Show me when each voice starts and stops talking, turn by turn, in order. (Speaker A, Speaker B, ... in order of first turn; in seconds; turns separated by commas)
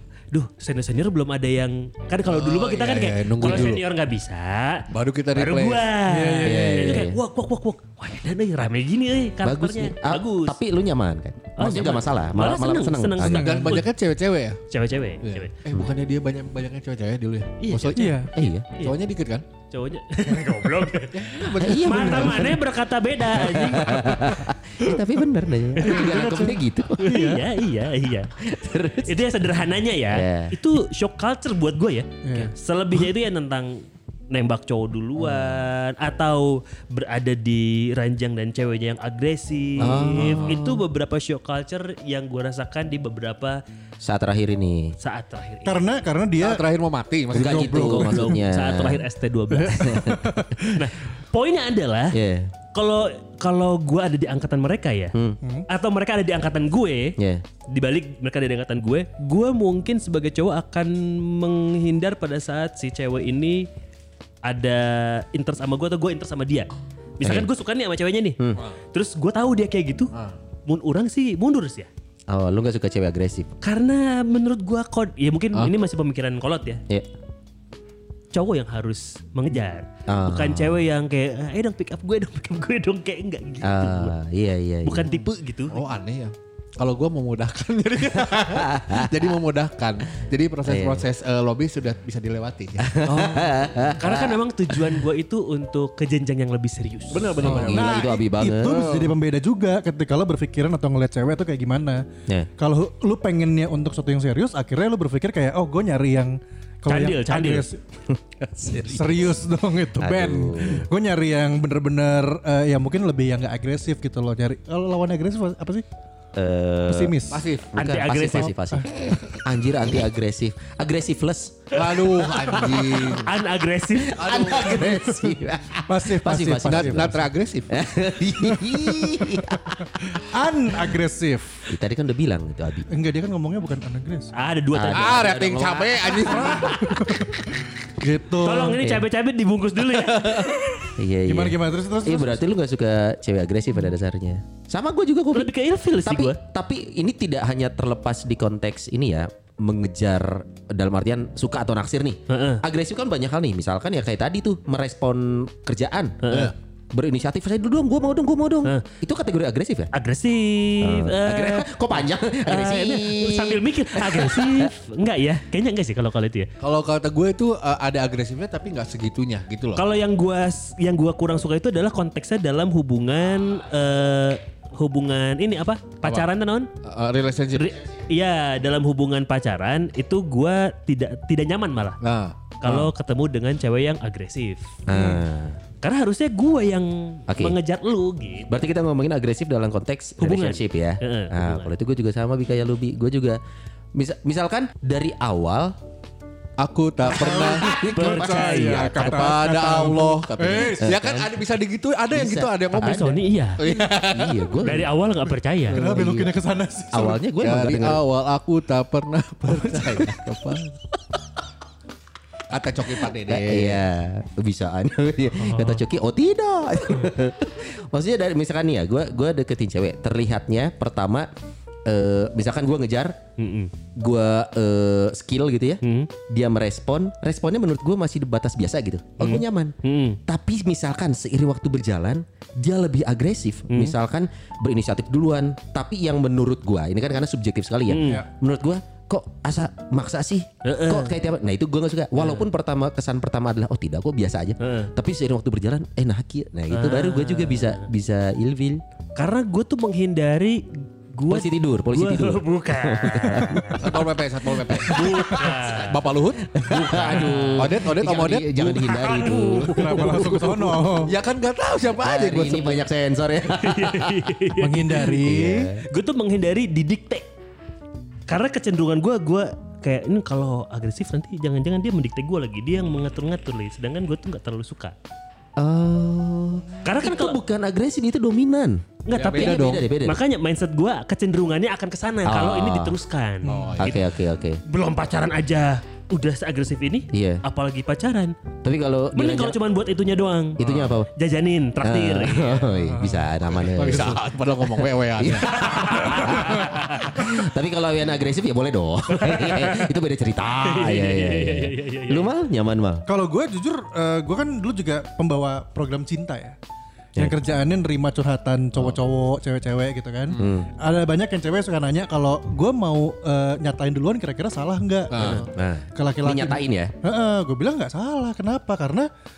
Speaker A: 0.3-10.6, Speaker B: 2.2-3.8, Speaker B: 4.9-5.9, Speaker C: 6.0-6.9, Speaker D: 6.4-7.2, Speaker D: 9.4-13.7, Speaker A: 11.6-13.9, Speaker C: 13.2-13.8, Speaker B: 13.3-14.6, Speaker A: 14.7-15.5, Speaker B: 15.2-18.2, Speaker A: 17.6-18.2, Speaker C: 17.9-18.3, Speaker D: 18.3-18.7, Speaker B: 18.8-19.4, Speaker A: 19.7-24.3, Speaker B: 21.1-22.3, Speaker C: 21.5-22.6, Speaker D: 21.6-22.6, Speaker D: 23.3-27.2, Speaker C: 25.8-27.5, Speaker A: 25.8-26.2, Speaker A: 27.0-28.3, Speaker D: 28.4-29.2, Speaker A: 29.1-43.6, Speaker D: 30.1-30.6, Speaker C: 32.2-33.1, Speaker D: 35.2-35.6, Speaker D: 39.8-40.7, Speaker B: 40.2-40.6, Speaker D: 44.0-45.0, Speaker A: 45.0-45.8, Speaker C: 45.6-46.6, Speaker B: 46.4-47.9, Speaker C: 47.3-48.4, Speaker D: 47.3-49.0, Speaker A: 47.8-50.1, Speaker C: 49.5-50.9, Speaker D: 49.7-50.4, Speaker A: 50.7-52.2, Speaker D: 52.1-52.5, Speaker A: 52.7-55.2, Speaker D: 55.1-55.4, Speaker A: 55.7-57.2, Speaker D: 57.2-57.4, Speaker A: 57.7-63.7, Speaker A: 64.5-66.7, Speaker A: 67.2-68.4, Speaker D: 67.2-67.5, Speaker A: 68.9-70.1, Speaker A: 70.7-71.9, Speaker D: 72.3-73.5, Speaker A: 73.6-76.8, Speaker A: 78.3-84.1, Speaker D: 80.1-80.8, Speaker D: 83.6-85.1, Speaker A: 84.8-85.8, Speaker B: 85.7-93.0, Speaker D: 88.2-89.2, Speaker D: 90.7-91.1, Speaker D: 92.8-95.0, Speaker A: 94.0-97.5, Speaker B: 97.1-98.1, Speaker D: 97.4-98.8, Speaker C: 97.4-102.0, Speaker B: 98.6-99.2, Speaker C: 102.6-107.8, Speaker A: 106.9-107.7, Speaker D: 108.4-109.2, Speaker C: 108.7-115.8, Speaker D: 110.0-110.9, Speaker D: 116.3-117.2, Speaker C: 116.9-117.4, Speaker B: 117.3-117.7, Speaker D: 117.7-121.8, Speaker A: 117.8-118.5, Speaker B: 121.7-123.3, Speaker A: 123.2-124.2, Speaker D: 124.0-129.8, Speaker B: 124.1-125.1, Speaker C: 125.9-127.2, Speaker B: 126.7-127.7, Speaker C: 128.4-131.7, Speaker D: 131.7-132.9, Speaker C: 132.9-134.3, Speaker A: 134.3-135.3, Speaker D: 134.7-137.2, Speaker B: 134.9-136.8, Speaker C: 136.2-137.4, Speaker C: 138.0-138.8, Speaker A: 138.4-140.9, Speaker B: 140.1-140.4, Speaker D: 141.0-159.9, Speaker C: 141.3-142.4, Speaker A: 145.3-146.4, Speaker A: 152.3-152.6, Speaker A: 156.2-156.5, Speaker A: 159.9-161.7, Speaker D: 160.8-164.7, Speaker A: 162.4-166.5, Speaker B: 166.6-169.8, Speaker A: 169.8-176.7, Speaker B: 176.8-177.8, Speaker A: 177.6-182.0, Speaker B: 182.0-182.9, Speaker A: 182.6-184.7, Speaker D: 184.9-185.6, Speaker C: 184.9-185.2, Speaker A: 185.8-188.5, Speaker D: 187.3-187.6, Speaker D: 188.5-193.4, Speaker A: 190.2-191.7, Speaker D: 193.9-195.8, Speaker B: 196.6-197.7, Speaker C: 197.1-200.9, Speaker D: 197.3-198.9, Speaker A: 197.8-199.3, Speaker B: 198.7-204.5, Speaker D: 200.8-201.3, Speaker D: 202.1-203.2, Speaker A: 202.8-203.6, Speaker D: 203.7-204.9, Speaker A: 204.6-205.8, Speaker B: 205.7-206.1, Speaker C: 205.8-207.2, Speaker D: 205.8-206.3, Speaker D: 206.9-208.0, Speaker B: 207.4-210.8, Speaker B: 212.5-213.8, Speaker D: 213.2-221.3, Speaker A: 215.4-215.8, Speaker D: 221.9-223.2, Speaker A: 223.4-223.7, Speaker D: 224.0-229.7, Speaker A: 225.8-226.1, Speaker A: 229.2-230.2, Speaker D: 230.3-248.8, Speaker A: 233.7-233.9, Speaker A: 237.9-238.2, Speaker A: 240.6-241.2, Speaker A: 242.2-242.4, Speaker A: 244.6-244.9, Speaker A: 246.7-247.9, Speaker A: 249.2-254.0, Speaker D: 251.3-253.8, Speaker B: 253.8-262.9, Speaker D: 254.7-255.7, Speaker A: 254.7-256.0, Speaker D: 256.5-260.6, Speaker A: 256.9-257.7, Speaker A: 259.0-260.4, Speaker C: 259.6-261.1, Speaker D: 262.0-264.2, Speaker A: 263.5-265.2, Speaker C: 264.6-265.7, Speaker D: 265.2-265.8, Speaker A: 265.9-267.3, Speaker A: 268.3-274.9, Speaker D: 275.6-280.2, Speaker A: 276.8-277.4, Speaker A: 279.1-284.0, Speaker B: 279.1-279.9, Speaker D: 282.2-283.0, Speaker C: 283.4-283.8, Speaker B: 283.5-284.0, Speaker D: 283.8-284.6, Speaker A: 284.7-288.4, Speaker D: 287.1-287.4, Speaker D: 288.6-289.6, Speaker A: 289.1-290.6, Speaker D: 290.6-291.1, Speaker B: 290.6-291.0, Speaker A: 291.1-292.7, Speaker D: 291.8-294.3, Speaker C: 292.8-293.3, Speaker B: 293.7-295.7, Speaker D: 295.2-303.1, Speaker A: 295.5-297.2, Speaker A: 299.1-299.9, Speaker A: 300.6-302.3, Speaker C: 303.1-306.6, Speaker C: 307.2-319.1, Speaker D: 310.4-310.7, Speaker B: 315.1-315.4, Speaker D: 315.2-316.9